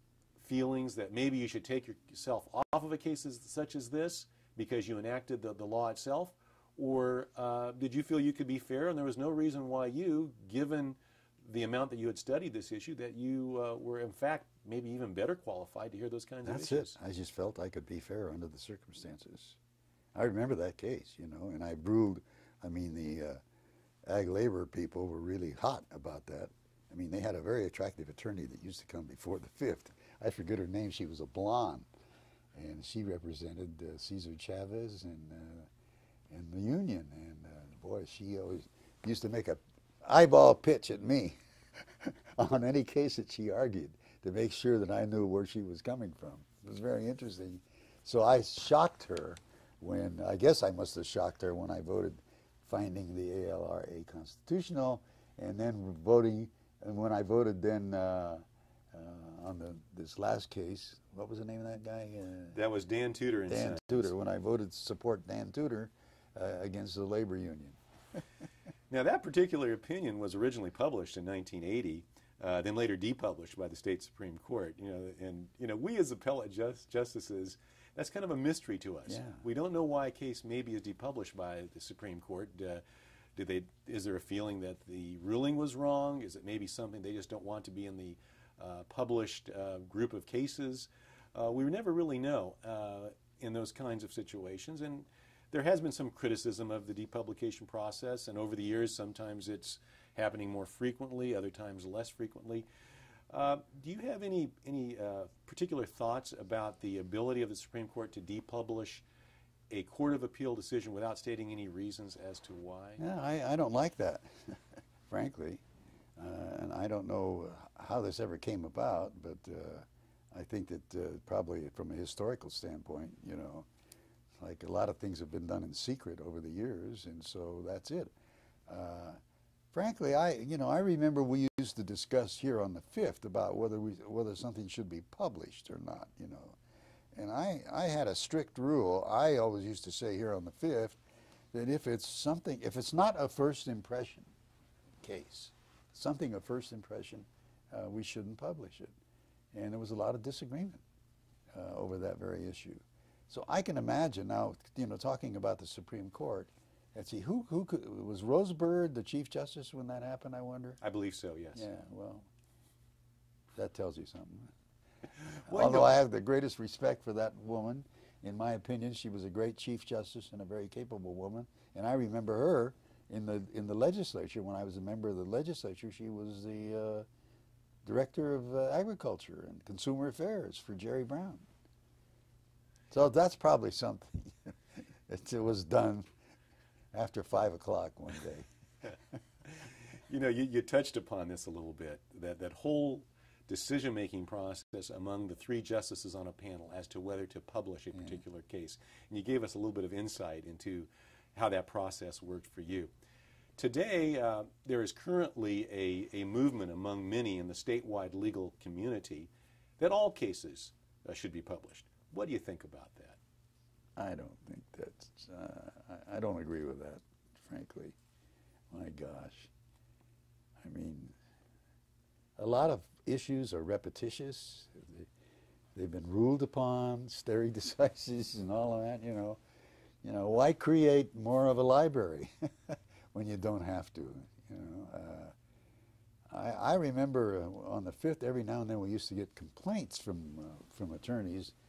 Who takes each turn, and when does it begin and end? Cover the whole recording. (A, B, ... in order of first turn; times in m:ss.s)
0:00.4-0:16.9 A
0:16.4-0:19.6 B
0:20.1-0:23.4 B
0:24.0-0:31.9 B
0:32.5-0:35.7 B
0:36.3-0:41.4 B
0:42.0-1:02.6 B
1:02.5-1:04.1 A
1:03.5-1:07.8 B
1:08.9-1:22.8 A
1:19.1-1:19.4 B
1:23.3-1:42.7 A
1:43.3-1:49.0 A
1:49.7-1:53.0 A
1:53.0-1:54.6 B
1:55.1-1:55.6 B
1:56.2-2:03.7 B
2:04.4-2:08.1 B
2:08.7-2:09.2 B
2:09.7-2:16.6 B
2:17.1-2:21.0 B
2:21.5-2:24.3 B
2:25.0-2:28.9 B
2:29.5-2:30.8 B
2:31.5-2:40.8 B
2:40.8-2:41.6 A
2:41.5-2:42.3 B
2:43.5-2:44.5 B
2:45.5-2:46.0 A
2:45.5-2:57.0 B
2:57.8-3:01.4 B
3:02.9-3:04.5 B
3:05.1-3:06.1 B
3:06.9-3:08.5 B
3:09.5-3:22.9 A
3:23.6-3:33.2 A
3:34.0-3:38.0 B
3:38.7-3:39.5 B
3:40.6-3:41.1 B
3:42.4-3:45.1 B
3:45.7-3:49.4 B
3:50.0-3:55.3 B
3:56.3-4:01.5 B